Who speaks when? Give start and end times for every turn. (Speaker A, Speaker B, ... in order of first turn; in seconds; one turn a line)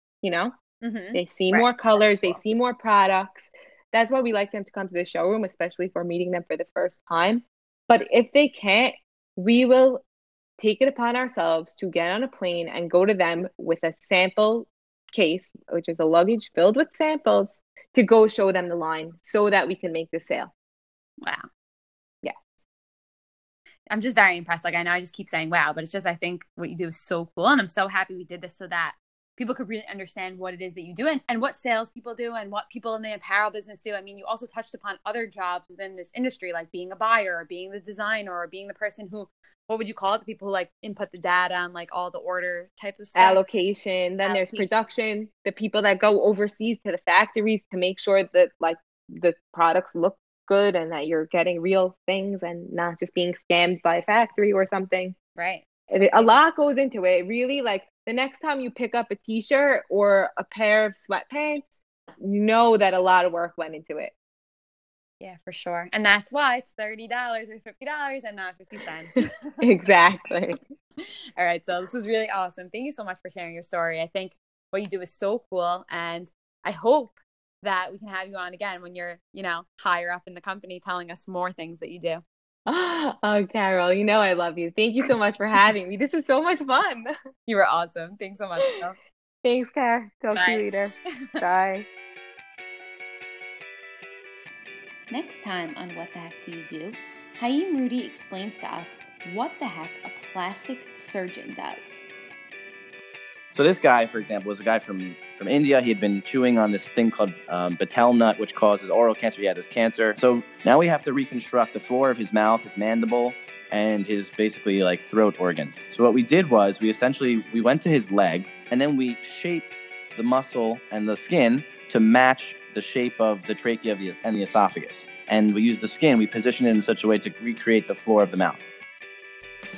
Speaker A: 0.2-0.5
Speaker B: 0.8-2.4
Speaker A: 1.1-10.0
Speaker A: 10.6-20.5
Speaker A: 22.2-22.6
Speaker B: 23.9-43.4
Speaker A: 43.2-55.2
Speaker B: 44.2-44.9
Speaker B: 55.4-56.4
Speaker A: 55.9-64.1
Speaker B: 65.2-69.6
Speaker A: 69.6-70.6
Speaker B: 71.4-82.2
Speaker A: 82.7-87.1
Speaker B: 87.5-89.0
Speaker A: 89.4-91.9
Speaker B: 90.3-90.7
Speaker B: 95.1-102.0
Speaker C: 103.5-128.7